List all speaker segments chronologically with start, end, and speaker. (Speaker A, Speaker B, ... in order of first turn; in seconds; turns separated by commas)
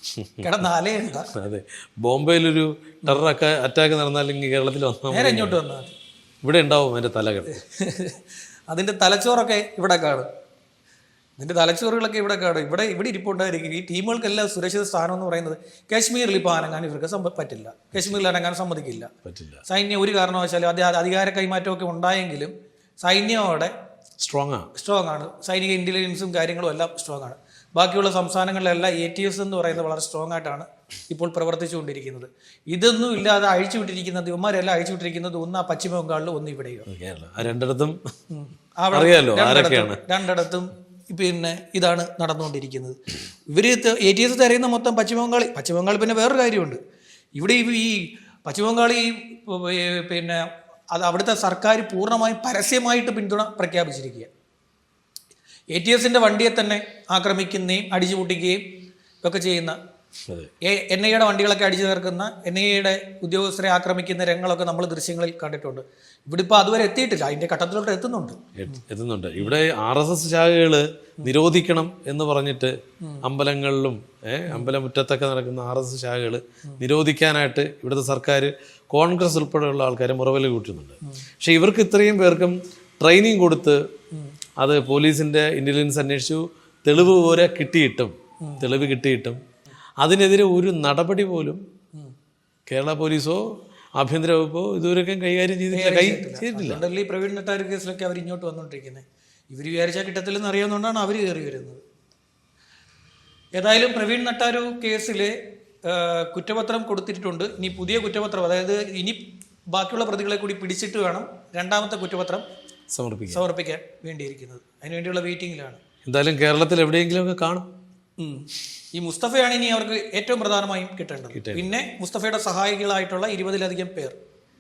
Speaker A: 0.4-1.3, Speaker B: 1.3-5.6, Speaker A: 5.1-5.9, Speaker B: 6.4-7.6, Speaker A: 7.6-10.3, Speaker A: 11.4-19.1, Speaker B: 19.2-19.6, Speaker A: 19.7-22.5, Speaker A: 23.0-23.7, Speaker B: 24.2-24.7, Speaker A: 24.8-36.9, Speaker B: 36.9-38.0, Speaker A: 38.3-43.0, Speaker B: 38.9-40.0, Speaker A: 43.5-46.8, Speaker A: 47.4-54.3, Speaker A: 55.7-58.6, Speaker A: 59.2-59.8, Speaker A: 60.6-68.4, Speaker B: 68.6-83.8, Speaker B: 84.6-89.4, Speaker B: 90.0-91.6, Speaker B: 92.7-93.4, Speaker B: 94.0-96.8, Speaker A: 95.7-101.8, Speaker A: 103.6-105.3, Speaker A: 105.9-112.4, Speaker B: 112.9-113.4, Speaker A: 113.3-115.8, Speaker B: 116.1-117.7, Speaker A: 118.2-124.2, Speaker B: 121.3-121.7